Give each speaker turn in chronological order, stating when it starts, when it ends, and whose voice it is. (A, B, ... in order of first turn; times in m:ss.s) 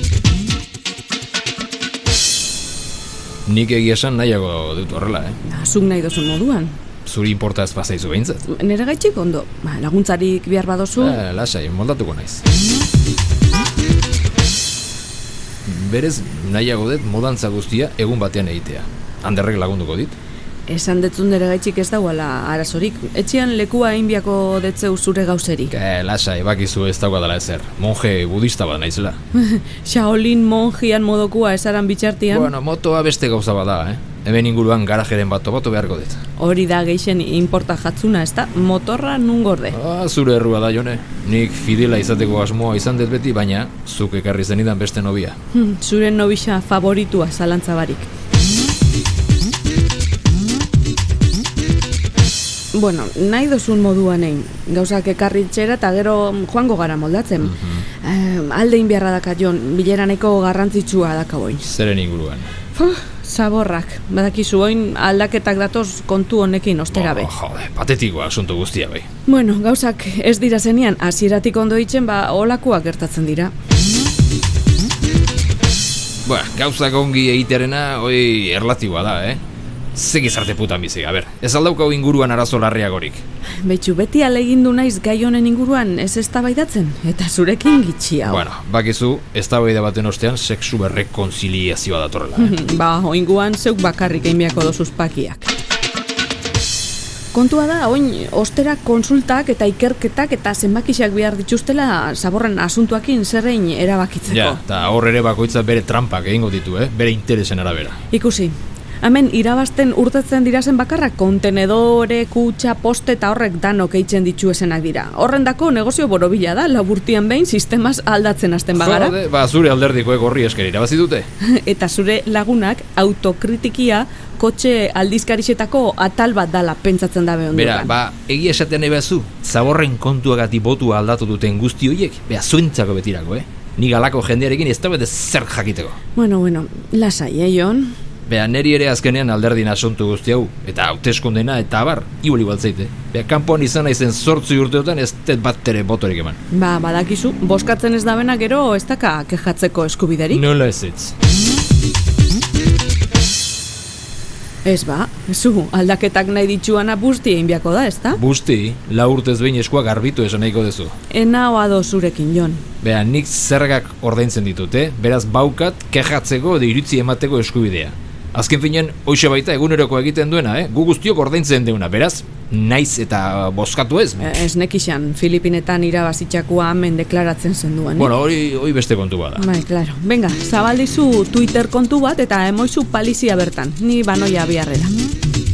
0:03.4-0:05.4 A
0:05.4-0:06.7 B
0:07.0-0:08.4 A
0:08.5-0:11.2 B
0:11.0-0:12.4 A
0:15.6-0:20.1 A
0:20.7-0:25.8 B
0:25.7-0:29.2 A
0:29.3-0:32.5 B
0:32.3-0:36.2 A
0:36.4-0:39.8 B
0:39.7-0:45.4 A
0:45.5-0:48.1 B
0:52.7-1:01.7 B
1:01.7-1:02.5 A
1:02.7-1:07.3 B
1:06.9-1:09.1 A
1:09.3-1:13.5 B
1:16.2-1:19.4 A
1:19.9-1:23.2 A
1:23.6-1:28.5 B
1:28.2-1:32.6 A
1:32.4-1:35.5 B
1:37.3-1:44.6 B
1:44.3-1:48.0 A
1:48.1-1:59.2 B
1:58.7-2:01.3 A
2:01.4-2:07.9 B
2:07.5-2:16.0 A
2:16.2-2:18.0 B
2:18.2-2:26.4 A
2:26.5-2:30.4 B
2:30.3-2:31.1 A
2:34.6-2:38.2 B
2:38.1-2:40.9 A
2:41.1-2:42.6 B
2:42.8-2:54.3 A
2:54.2-2:58.1 B
2:58.0-2:59.5 A
2:59.4-3:04.9 B